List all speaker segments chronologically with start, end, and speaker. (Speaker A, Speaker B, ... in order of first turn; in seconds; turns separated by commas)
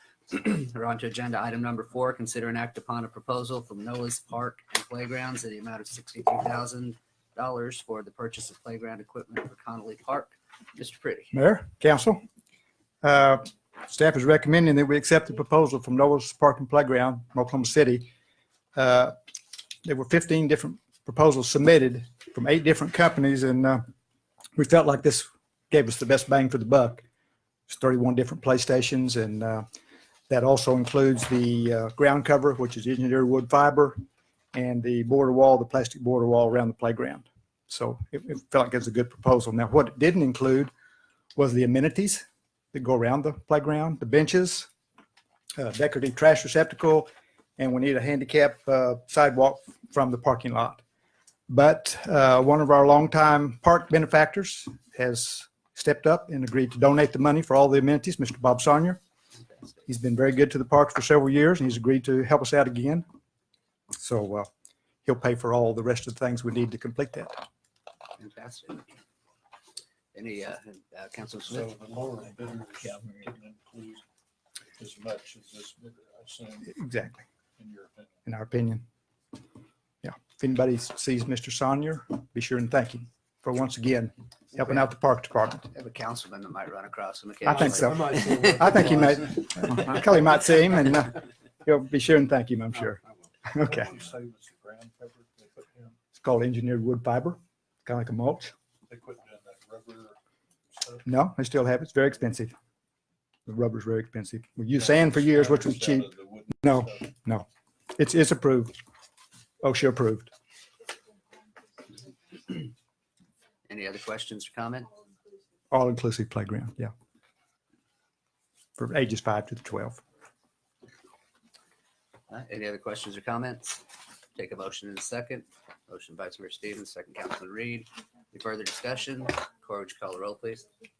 Speaker A: 0.3-11.3, Speaker B: 11.3-12.2, Speaker B: 13.0-18.1, Speaker B: 18.7-19.1, Speaker B: 19.8-23.8, Speaker B: 24.6-27.0, Speaker B: 27.7-29.7, Speaker B: 30.3-34.0, Speaker B: 34.5-40.7, Speaker B: 41.4-44.7, Speaker B: 45.6-50.8, Speaker B: 51.5-59.0, Speaker B: 59.9-63.0, Speaker B: 64.0-64.5, Speaker B: 65.0-67.4, Speaker A: 68.2-69.0, Speaker A: 70.1-71.7, Speaker C: 71.5-74.0, Speaker C: 74.8-76.7, Speaker B: 76.6-77.2, Speaker C: 77.6-78.1, Speaker B: 78.2-78.8, Speaker B: 80.0-85.7, Speaker A: 85.7-88.9, Speaker B: 87.5-93.9, Speaker C: 93.5-96.0, Speaker B: 96.2-98.5, Speaker C: 98.9-100.2, Speaker C: 100.7-101.0, Speaker B: 101.0-102.5, Speaker B: 103.5-106.1, Speaker C: 104.8-107.0, Speaker B: 106.6-108.8, Speaker B: 109.6-110.3, Speaker A: 113.7-114.9, Speaker B: 115.7-116.9, Speaker B: 118.8-120.0, Speaker A: 122.3-130.7